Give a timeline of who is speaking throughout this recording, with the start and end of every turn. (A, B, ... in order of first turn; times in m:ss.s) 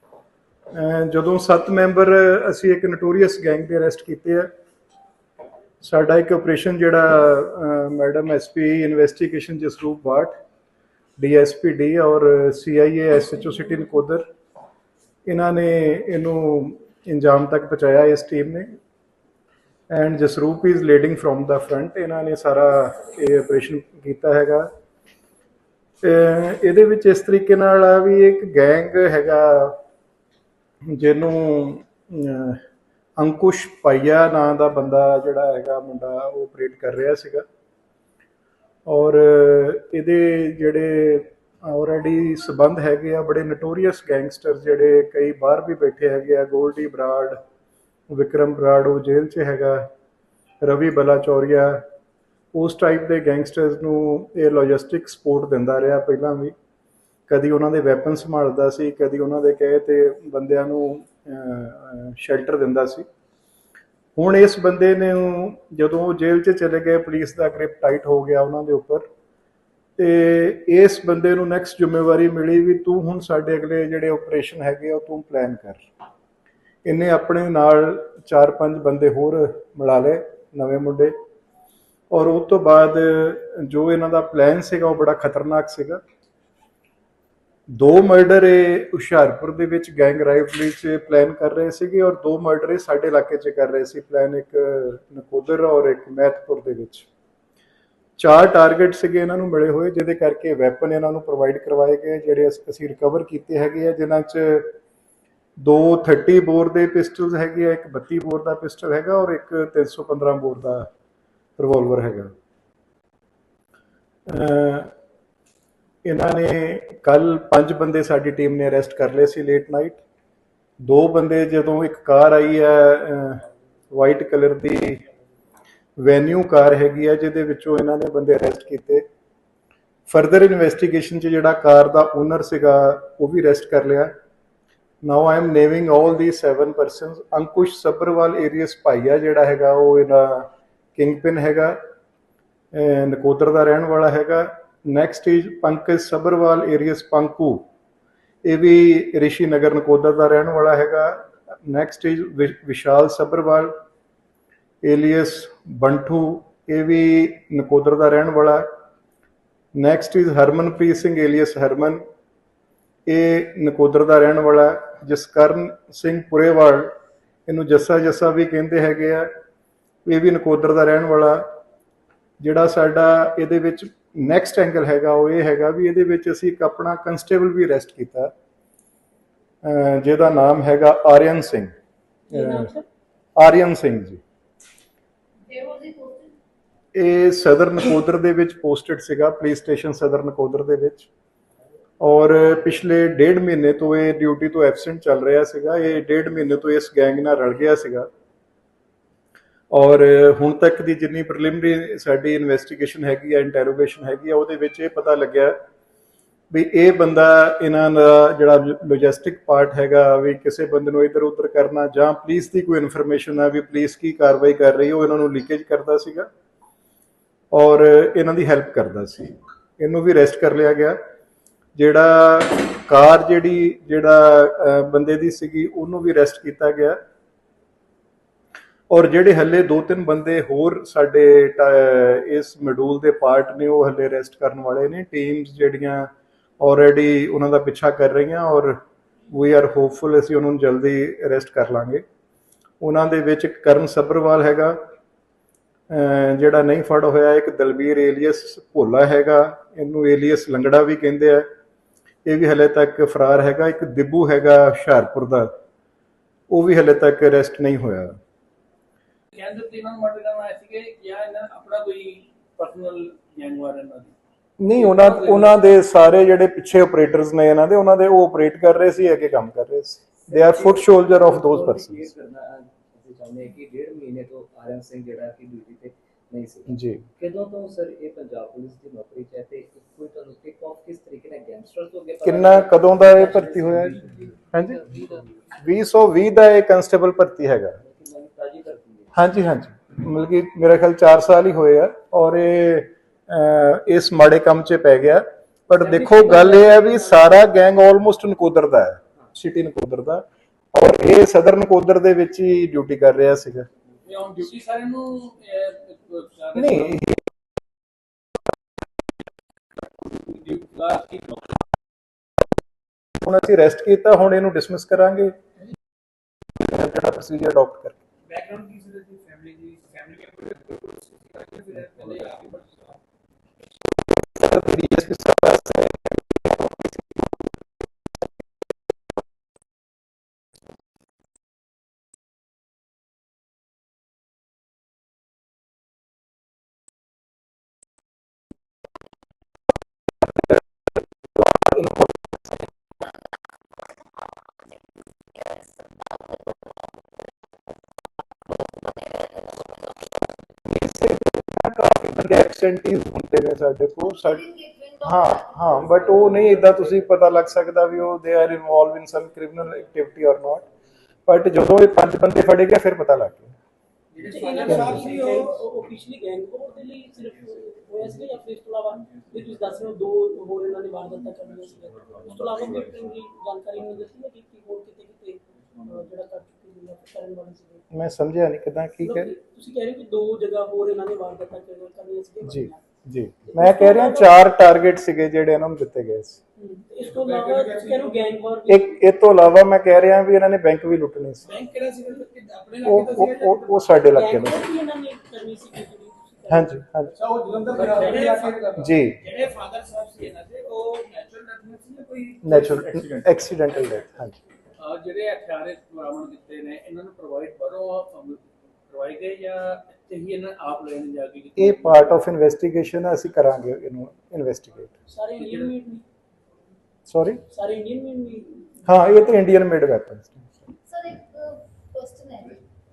0:00.7-0:04.5 A
0:05.8-0:10.3 A
0:11.2-0:14.2 A
0:15.3-0:18.7 A
0:19.9-0:24.7 A
0:26.0-0:29.8 A
0:30.9-0:32.6 A
0:33.2-0:37.4 A
0:38.9-0:47.4 A
0:48.1-0:49.8 A
0:50.6-0:51.8 A
0:52.5-0:56.5 A
0:57.3-1:03.0 A
1:04.2-1:09.0 A
1:10.0-1:15.8 A
1:16.8-1:21.1 A
1:22.1-1:26.0 A
1:27.7-1:37.1 A
1:38.2-1:44.7 A
1:45.6-1:50.8 A
1:51.6-1:52.3 A
1:54.3-1:54.9 A
1:56.0-2:00.0 A
2:00.8-2:05.0 A
2:06.0-2:09.0 A
2:10.1-2:14.1 A
2:15.0-2:21.8 A
2:22.7-2:27.6 A
2:28.4-2:33.7 A
2:34.8-2:38.6 A
2:39.7-2:42.0 A
2:43.1-2:46.9 A
2:47.5-2:49.3 A
2:50.0-2:51.4 A
2:52.4-2:58.3 A
2:59.6-3:01.7 A
3:02.3-3:02.9 B
3:02.3-3:02.7 A
3:03.4-3:04.2 A
3:05.4-3:06.3 C
3:06.9-3:11.1 A
3:12.0-3:18.1 A
3:19.7-3:25.5 A
3:26.5-3:36.3 A
3:37.5-3:41.0 A
3:41.8-3:47.0 A
3:48.9-3:56.1 A
3:56.6-3:58.8 A
3:59.3-4:02.0 A
4:02.8-4:04.8 A
4:05.9-4:11.4 A
4:12.2-4:15.5 A
4:16.5-4:18.1 A
4:19.3-4:24.1 D
4:24.6-4:32.1 A
4:24.7-4:25.6 D
4:30.3-4:44.3 E
4:36.7-4:37.0 A
4:42.2-4:44.0 A
4:44.5-4:44.9 A
4:44.9-4:45.2 E
4:45.5-4:47.8 A
4:47.8-4:49.2 E
4:49.1-5:03.7 A
4:55.9-4:57.2 D
5:04.0-5:07.0 D
5:06.5-5:07.2 A
5:10.0-5:11.6 D
5:13.2-5:15.3 A
5:16.6-5:18.0 A
5:18.3-5:23.0 D
5:24.2-5:27.0 A
5:45.3-5:46.7 C
5:48.5-5:50.1 C
5:50.6-5:54.4 A
5:54.2-5:56.7 C
5:55.0-6:00.6 A
6:01.3-6:03.5 A
6:04.1-6:05.5 D
6:04.2-6:17.8 B
6:17.9-6:19.3 A
6:19.0-6:22.8 B
6:22.4-6:26.4 A
6:23.5-6:24.4 B
6:26.6-6:28.9 B
6:27.1-6:28.1 D
6:28.7-6:31.5 A
6:31.4-6:33.7 D
6:32.8-6:34.7 A
6:34.1-6:37.1 B
6:36.5-6:37.1 A
6:37.3-6:43.2 D
6:37.7-6:38.6 B
6:38.8-6:39.2 A
6:42.4-6:44.4 A
6:44.8-6:52.2 D
6:51.6-6:54.9 A
6:55.1-6:56.0 B
6:55.4-6:55.7 D
6:57.1-6:57.4 A
6:57.5-6:58.8 B
6:58.8-7:00.6 A
7:00.8-7:02.6 C